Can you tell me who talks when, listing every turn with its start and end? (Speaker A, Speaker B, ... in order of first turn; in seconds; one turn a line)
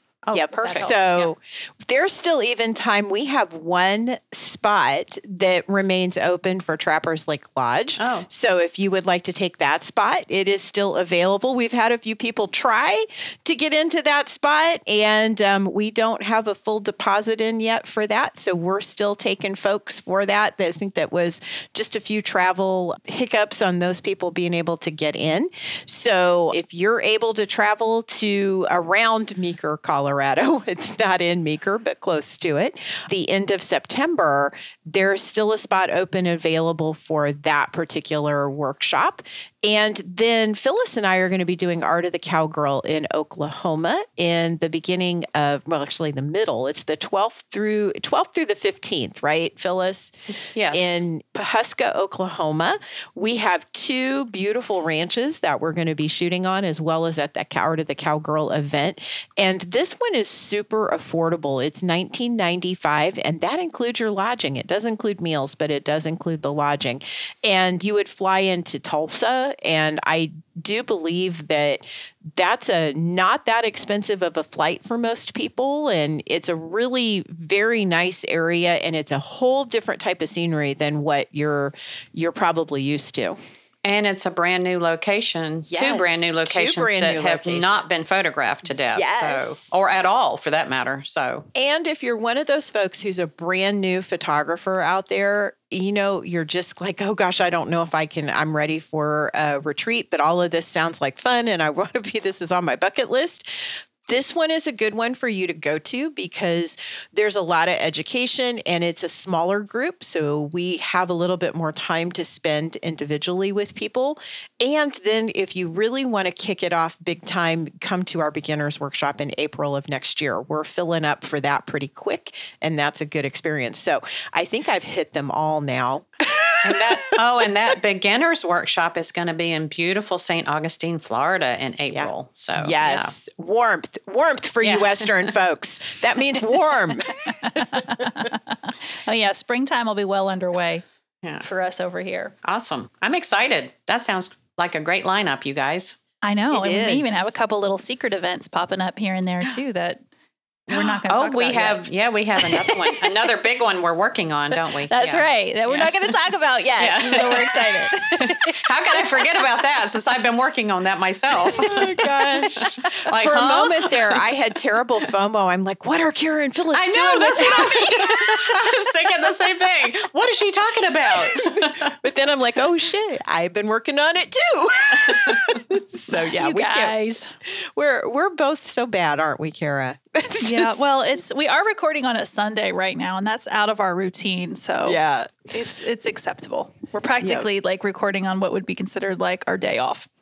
Speaker A: 0.2-1.3
Speaker B: 0.3-50.1
Speaker C: 0.6-0.9
Speaker A: 8.0-8.3
Speaker A: 50.5-51.0
Speaker B: 50.7-83.4
Speaker A: 83.8-91.5
Speaker B: 85.7-87.8
Speaker B: 88.8-89.8
Speaker B: 91.5-127.2
Speaker A: 126.6-133.1
Speaker B: 131.9-137.3
Speaker A: 134.6-135.3
Speaker C: 137.4-140.8
Speaker C: 141.4-142.3
Speaker A: 142.4-146.0
Speaker C: 146.2-150.0
Speaker B: 146.5-147.2
Speaker C: 150.7-151.8
Speaker A: 150.7-156.2
Speaker C: 152.4-153.2
Speaker C: 154.9-159.3
Speaker A: 156.8-164.2
Speaker B: 161.5-168.9
Speaker A: 166.7-171.9
Speaker B: 171.1-180.8
Speaker C: 176.4-177.3
Speaker C: 180.4-190.1
Speaker B: 184.8-185.5